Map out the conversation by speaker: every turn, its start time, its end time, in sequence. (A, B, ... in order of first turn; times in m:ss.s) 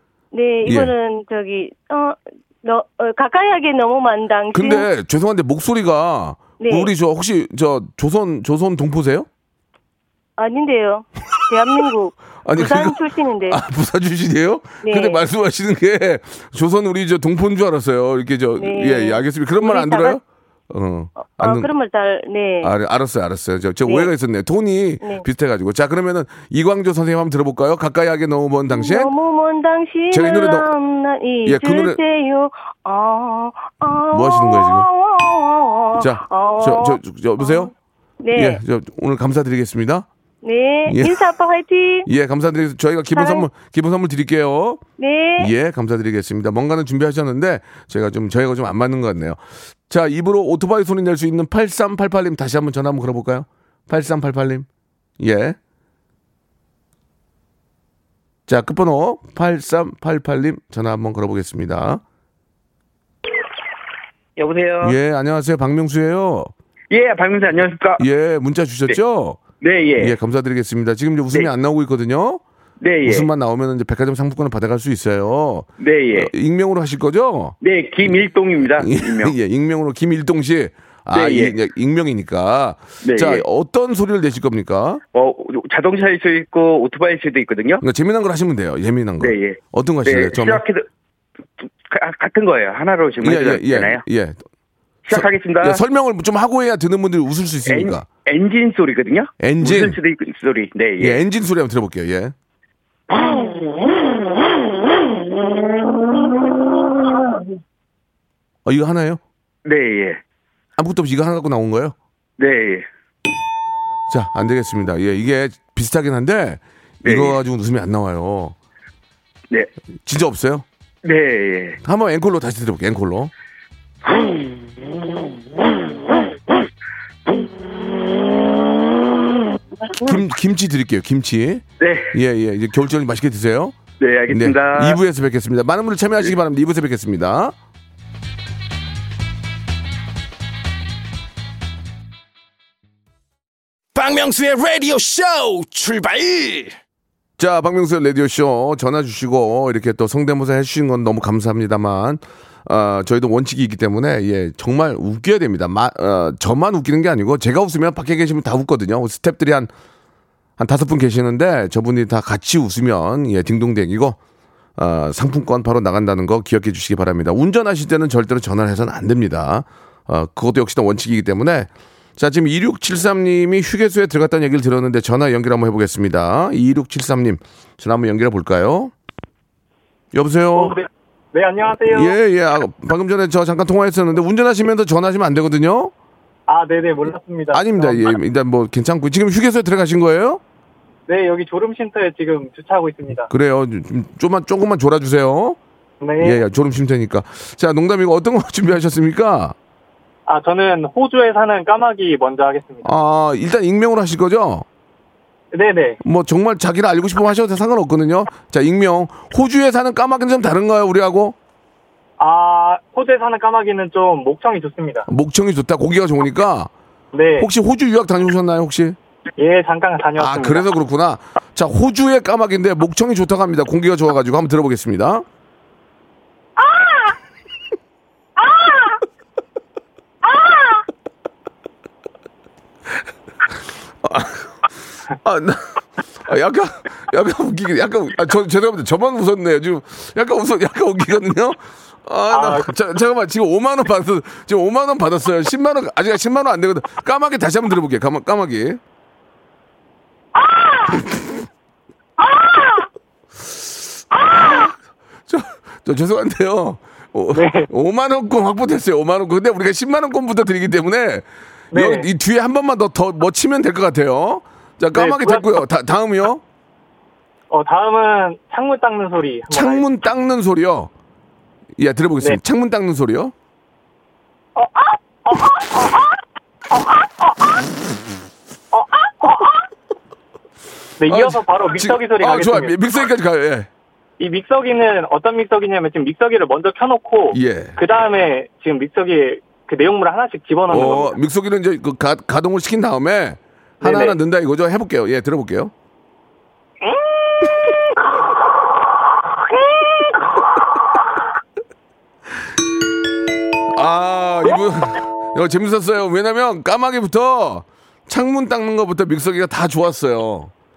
0:00.3-0:04.9 A
0:00.6-0:00.9 B
0:04.5-0:09.3 B
0:06.6-0:06.9 A
0:10.4-0:13.6 A
0:12.4-0:21.7 B
0:14.8-0:15.2 A
0:18.6-0:20.2 A
0:21.2-0:22.7 A
0:22.6-0:29.1 B
0:23.8-0:24.1 A
0:28.7-0:37.7 A
0:30.1-0:30.7 B
0:31.4-0:32.0 B
0:34.1-0:34.9 B
0:36.0-0:37.7 B
0:38.2-0:38.6 A
0:38.3-0:40.1 B
0:40.4-0:42.1 A
0:40.9-0:41.2 B
0:42.0-0:44.8 B
0:43.1-0:43.5 A
0:45.0-0:45.5 A
0:45.4-0:54.7 B
0:55.2-0:55.6 B
0:58.5-1:02.0 B
1:04.4-1:05.0 C
1:04.8-1:06.5 B
1:06.9-1:08.0 C
1:08.0-1:09.4 B
1:09.6-1:10.2 C
1:10.0-1:12.4 B
1:12.8-1:13.3 C
1:13.0-1:18.2 B
1:15.8-1:16.3 C
1:17.6-1:19.3 C
1:18.8-1:25.0 B
1:21.1-1:21.5 C
1:23.0-1:23.4 C
1:25.1-1:27.8 C
1:27.8-1:30.6 B
1:29.2-1:30.8 C
1:31.6-1:34.0 C
1:33.2-1:34.4 B
1:35.1-1:35.8 C
1:35.1-1:38.1 B
1:37.7-1:41.2 C
1:39.4-1:40.0 B
1:41.0-1:42.3 B
1:48.6-1:49.2 B
1:49.6-1:50.2 C
1:50.8-1:51.9 B
1:52.4-1:52.8 C
1:54.1-1:58.6 B
1:57.0-1:57.4 C
2:00.0-2:00.6 B
2:01.0-2:01.8 C
2:01.8-2:03.3 B
2:10.0-2:13.8 B
2:11.8-2:12.1 C
2:14.0-2:15.0 C
2:14.3-2:17.5 B
2:23.9-2:26.8 D
2:27.4-2:39.7 B
2:40.6-2:44.2 B
2:44.8-2:58.9 B
3:00.1-3:00.8 B
3:00.5-3:02.2 E
3:01.9-3:05.9 B
3:06.5-3:08.2 E
3:07.5-3:10.4 B
3:11.1-3:13.3 E
3:13.3-3:15.6 B
3:16.0-3:16.4 E
3:16.2-3:19.5 B
3:20.3-3:22.9 E
3:22.8-3:24.6 B
3:25.5-3:26.0 E
3:26.0-3:31.4 B
3:32.2-3:35.1 E
3:35.1-3:36.7 B
3:37.1-3:37.5 E
3:37.4-3:39.0 B
3:39.4-3:40.7 E
3:40.2-3:45.2 B
3:54.0-3:54.5 B
3:55.2-3:55.6 B
3:56.2-4:08.8 B
4:02.3-4:02.7 E
4:10.4-4:10.9 E
4:12.2-4:12.8 E
4:14.1-4:14.6 E
4:15.3-4:26.4 B
4:17.3-4:17.7 E
4:21.7-4:22.1 E
4:24.9-4:25.6 E
4:27.5-4:29.9 E
4:29.5-4:30.9 B
4:31.8-4:33.3 B
4:34.6-4:36.1 E
4:36.7-4:37.4 E
4:38.7-4:39.6 E
4:41.0-4:42.8 E
4:41.1-4:43.7 B
4:44.2-4:51.2 E
4:47.3-4:47.8 B
4:50.7-4:55.7 B
4:53.8-4:54.2 E
5:03.7-5:10.5 B